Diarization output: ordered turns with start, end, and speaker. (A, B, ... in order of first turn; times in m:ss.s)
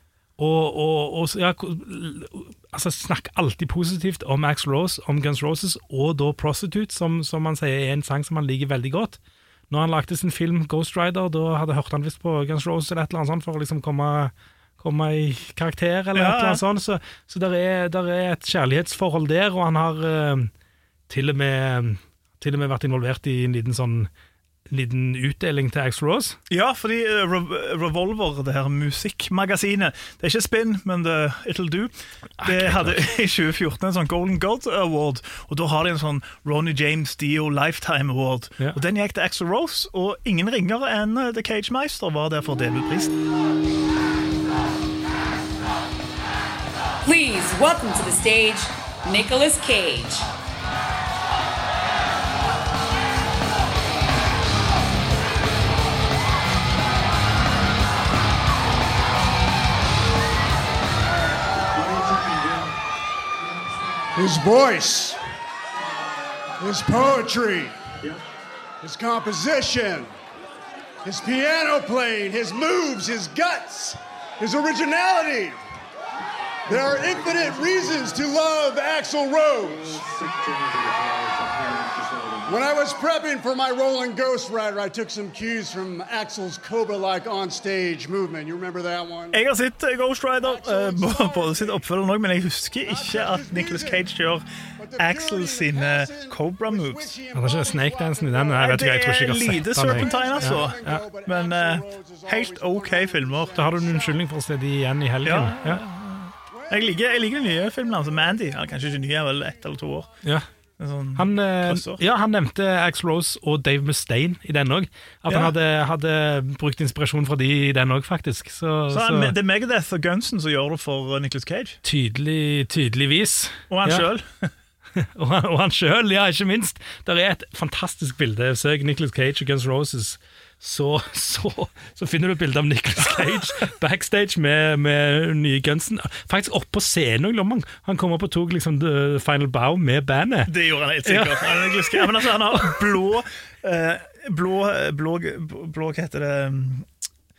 0:00.4-0:09.2 A
0:09.7-0:20.5 A
0:16.2-0:16.6 B
0:21.1-0:24.1 A
0:24.7-0:26.4 A
0:26.5-0:43.2 B
0:32.4-0:33.0 A
0:47.0-0:50.3 C
1:04.1-1:05.2 D
1:06.6-1:07.8 D
1:08.8-1:10.1 D
1:11.0-1:15.6 D
1:16.7-1:20.3 D
1:21.6-1:29.4 D
1:29.3-1:34.4 B
1:30.4-1:31.8 D
1:32.9-1:34.1 D
1:34.8-1:44.3 D
1:35.0-1:37.1 B
1:37.3-1:41.1 A
1:38.6-1:43.6 B
1:43.5-1:45.8 A
1:45.2-1:50.1 B
1:50.8-1:52.0 B
1:51.2-1:59.4 A
1:55.3-1:55.5 B
1:58.9-2:01.8 B
2:01.8-2:04.1 A
2:03.7-2:04.5 B
2:05.0-2:20.5 A
2:20.5-2:26.9 B
2:21.0-2:22.2 A